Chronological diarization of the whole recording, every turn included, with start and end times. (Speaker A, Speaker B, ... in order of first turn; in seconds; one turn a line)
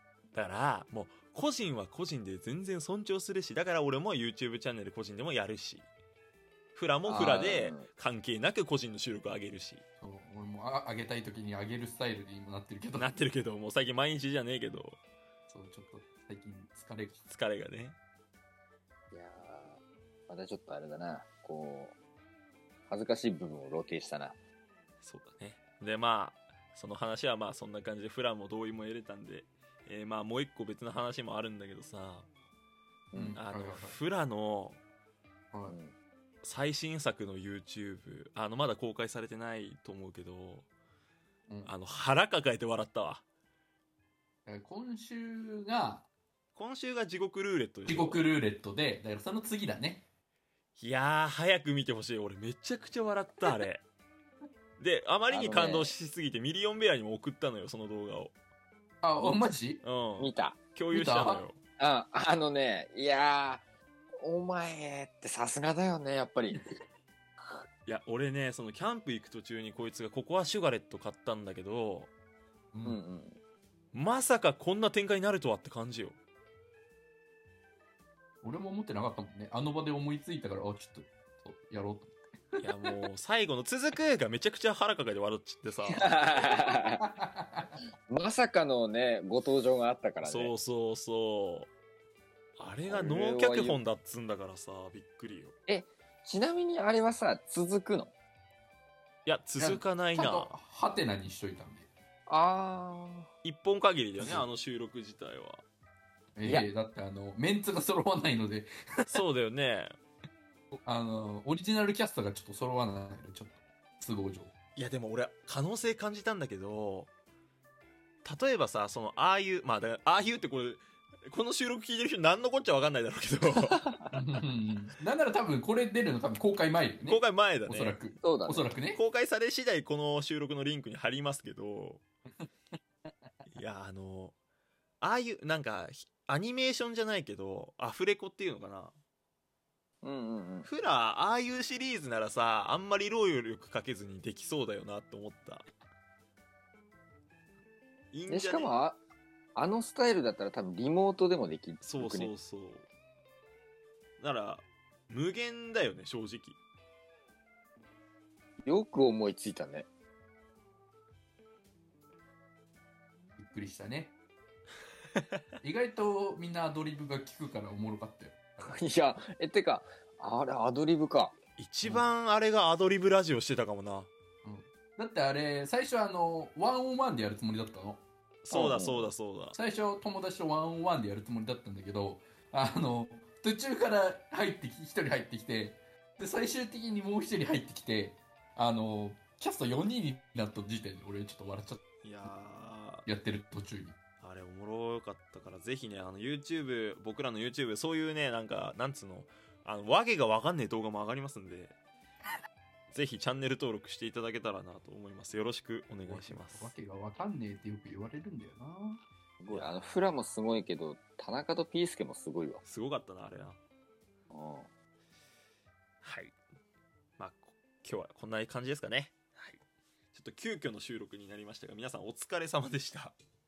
Speaker A: 0.3-5.9
Speaker A: 6.7-9.8
Speaker B: 7.1-7.8
Speaker C: 10.0-13.2
Speaker A: 12.9-15.0
Speaker C: 15.5-17.2
Speaker A: 17.2-18.0
Speaker B: 19.1-21.9
Speaker B: 22.9-24.4
Speaker A: 25.0-32.3
Speaker B: 33.1-33.4
Speaker C: 33.1-34.0
Speaker A: 33.3-34.8
Speaker C: 35.5-35.8
Speaker B: 35.7-35.9
Speaker A: 36.4-40.7
Speaker C: 41.5-41.7
Speaker A: 41.6-43.2
Speaker C: 44.5-46.1
Speaker A: 46.5-48.2
Speaker C: 47.9-50.0
Speaker A: 50.8-53.8
Speaker A: 54.8-58.3
Speaker B: 55.3-55.9
Speaker C: 59.0-59.8
Speaker A: 59.8-61.6
Speaker B: 60.2-60.6
Speaker C: 60.9-61.5
Speaker B: 61.8-63.6
Speaker B: 64.2-66.7
Speaker A: 67.8-72.1
Speaker C: 72.7-73.0
Speaker B: 72.8-73.4
Speaker A: 73.9-76.2
Speaker C: 78.4-82.7
Speaker A: 82.6-86.3
Speaker B: 85.9-87.0
Speaker C: 86.9-87.7
Speaker B: 88.1-90.5
Speaker A: 90.2-91.7
Speaker A: 92.6-95.5
Speaker B: 92.8-93.8
Speaker B: 95.7-98.1
Speaker A: 99.2-100.5
Speaker C: 99.6-101.9
Speaker B: 102.3-103.3
Speaker A: 103.4-105.6
Speaker C: 104.2-104.5
Speaker C: 106.3-109.2
Speaker A: 109.1-110.0
Speaker C: 110.8-114.5
Speaker A: 114.8-117.1
Speaker A: 118.2-123.8
Speaker C: 124.1-129.0
Speaker A: 127.1-128.0
Speaker B: 128.2-128.7
Speaker A: 128.9-132.0
Speaker A: 133.4-134.3
Speaker A: 135.0-138.9
Speaker B: 140.0-140.7
Speaker A: 140.6-145.6
Speaker A: 148.1-148.7
Speaker B: 148.3-149.0
Speaker B: 149.6-152.3
Speaker A: 151.8-152.9
Speaker A: 154.2-156.6
Speaker B: 158.6-159.9
Speaker C: 163.4-164.1
Speaker C: 165.6-168.8
Speaker B: 168.6-171.3
Speaker A: 171.6-174.1
Speaker C: 174.4-178.0
Speaker A: 178.4-179.6
Speaker B: 178.5-179.1
Speaker C: 179.5-191.8
Speaker A: 192.0-193.1
Speaker C: 193.1-194.0
Speaker A: 194.2-201.8
Speaker A: 202.9-206.7
Speaker C: 206.1-209.0
Speaker B: 209.4-212.6
Speaker A: 209.5-209.8
Speaker A: 212.6-213.6
Speaker B: 214.3-214.7
Speaker A: 216.0-216.3
Speaker A: 217.2-219.6
Speaker A: 220.1-223.2